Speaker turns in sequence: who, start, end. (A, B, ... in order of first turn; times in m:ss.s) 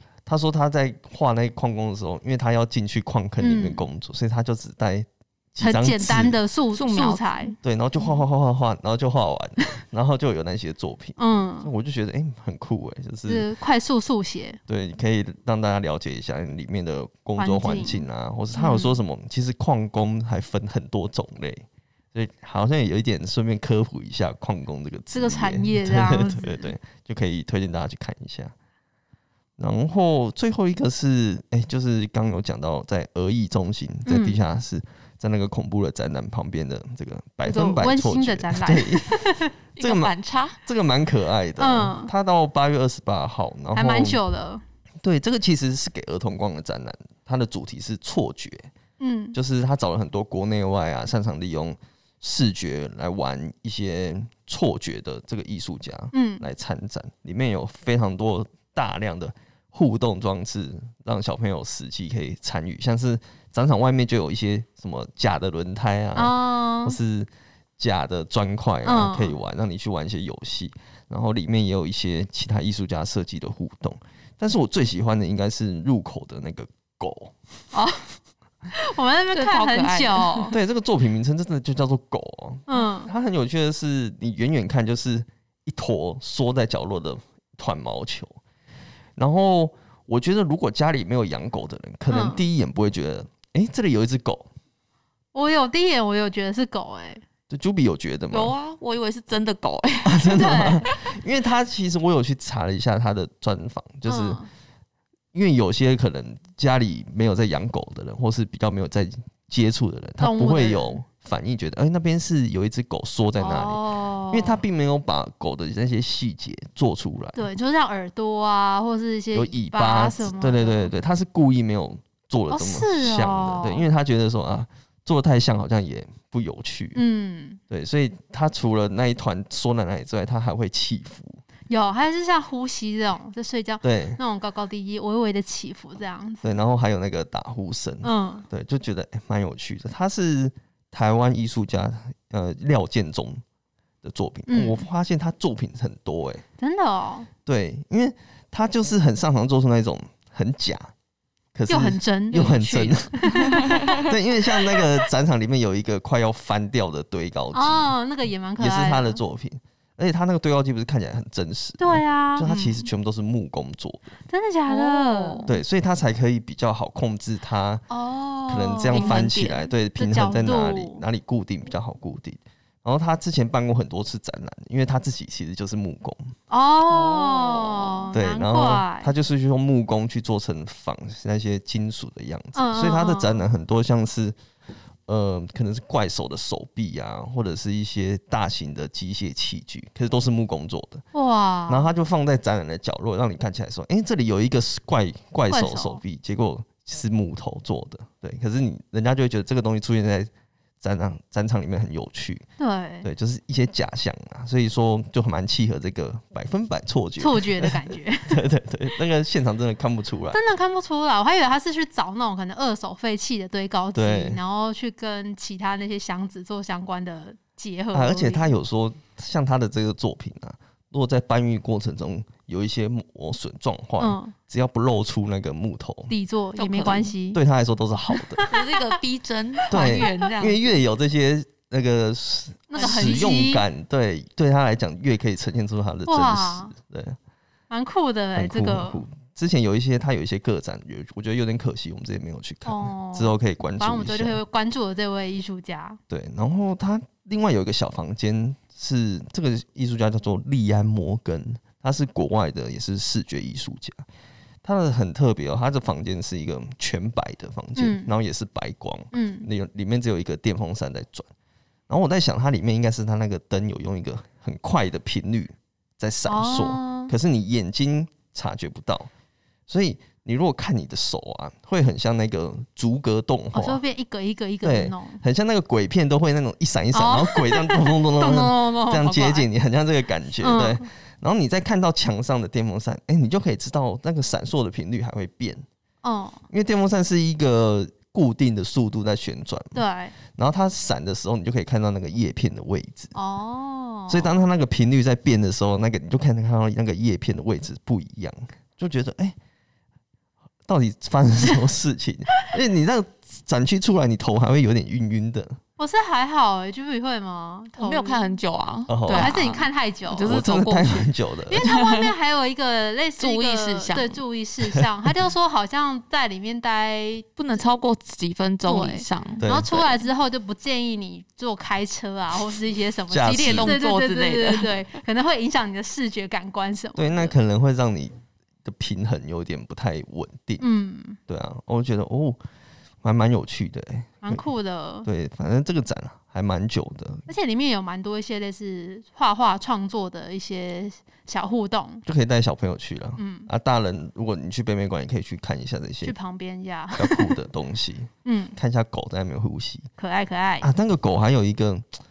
0:00.2-0:06.4 A
0:03.4-0:03.8 B
0:05.6-0:07.6 B
0:06.7-0:07.6 C
0:07.6-0:13.4 A
0:11.2-0:11.7 B
0:13.3-0:14.6 B
0:14.7-0:28.5 A
0:17.4-0:19.0 B
0:25.1-0:26.7 B
0:29.6-0:44.2 A
0:34.0-0:34.4 B
0:37.4-0:39.5 B
0:39.8-0:40.6 C
0:41.6-0:42.1 B
0:43.7-0:44.6 B
0:45.0-0:48.7 A
0:49.0-0:49.4 B
0:49.3-1:17.3 A
0:56.1-0:56.4 B
1:06.2-1:07.0 B
1:08.8-1:09.3 B
1:17.7-1:18.1 B
1:18.7-1:20.5 B
1:19.3-1:20.5 C
1:20.5-1:28.4 A
1:22.7-1:23.1 B
1:29.2-1:34.5 A
1:32.1-1:32.4 B
1:35.3-1:37.2 B
1:37.5-1:38.5 A
1:38.3-1:40.8 C
1:40.0-1:44.4 A
1:40.3-1:40.9 B
1:44.0-1:44.5 B
1:45.3-1:57.4 A
1:50.2-1:51.0 B
1:53.4-1:54.6 B
1:57.4-2:00.9 B
1:59.3-2:07.0 A
2:02.5-2:03.8 B
2:07.0-2:07.6 B
2:07.7-2:11.4 A
2:11.7-2:16.6 B
2:13.8-2:14.2 A
2:16.4-2:23.4 A
2:18.0-2:18.5 B
2:24.0-2:26.4 A
2:24.5-2:24.8 B
2:26.6-2:27.3 B
2:27.4-2:30.9 A
2:31.5-2:37.9 A
2:31.7-2:34.8 B
2:33.6-2:33.9 C
2:37.5-2:39.2 B
2:38.6-2:44.1 A
2:41.8-2:42.9 B
2:44.3-2:45.4 B
2:44.7-2:45.6 C
2:45.4-2:47.8 A
2:47.9-2:51.0 B
2:48.5-2:56.3 A
2:48.9-2:49.7 C
2:56.5-2:59.1 B
2:56.9-2:58.1 C
2:58.1-3:04.4 A
3:02.5-3:03.5 B
3:05.1-3:11.0 A
3:11.1-3:11.9 B
3:11.7-3:20.3 A
3:15.5-3:16.0 B
3:20.8-3:22.4 A
3:22.6-3:23.1 B
3:23.0-3:30.4 A
3:27.2-3:28.4 B
3:30.3-3:38.5 B
3:33.9-3:34.4 A
3:37.9-3:46.1 A
3:44.0-3:44.3 B
3:46.1-3:47.4 B
3:46.6-3:47.1 C
3:47.3-3:48.4 A
3:48.2-3:49.0 B
3:48.4-3:50.7 C
3:49.7-3:57.2 A
3:49.8-3:50.3 B
3:52.7-3:53.6 B
3:56.0-3:56.7 B
3:57.7-3:59.0 B
3:58.3-4:04.4 A
4:02.6-4:06.0 B
4:06.1-4:14.0 A
4:14.6-4:21.3 A
4:17.8-4:18.1 B
4:19.1-4:19.5 B
4:21.9-4:29.1 A
4:26.2-4:27.1 B
4:29.7-4:33.8 A
4:33.5-4:35.2 B
4:34.6-4:45.6 A
4:36.9-4:39.5 B
4:40.4-4:40.8 B
4:46.0-4:46.4 B
4:46.5-4:53.1 A
4:49.7-4:50.2 B
4:53.1-4:54.4 B
4:54.1-4:59.4 A
5:00.7-5:05.6 A
5:05.8-5:08.4 B
5:07.8-5:12.1 C
5:08.9-5:09.3 A
5:09.1-5:10.4 B
5:10.3-5:11.7 A
5:11.5-5:17.6 B
5:13.2-5:14.2 C
5:17.4-5:19.4 C
5:18.6-5:27.3 B
5:19.4-5:20.0 A
5:23.1-5:23.7 A
5:23.2-5:24.8 C
5:27.0-5:30.6 A
5:30.6-5:31.2 B
5:31.3-5:32.4 A
5:33.0-5:34.4 A
5:34.2-5:35.1 B
5:35.0-5:37.3 A
5:37.3-5:42.0 B
5:42.0-5:46.1 A
5:43.2-5:43.5 B
5:46.0-5:47.3 B
5:46.9-5:49.9 A
5:48.2-5:48.6 B
5:50.0-5:50.7 B
5:50.6-5:51.8 A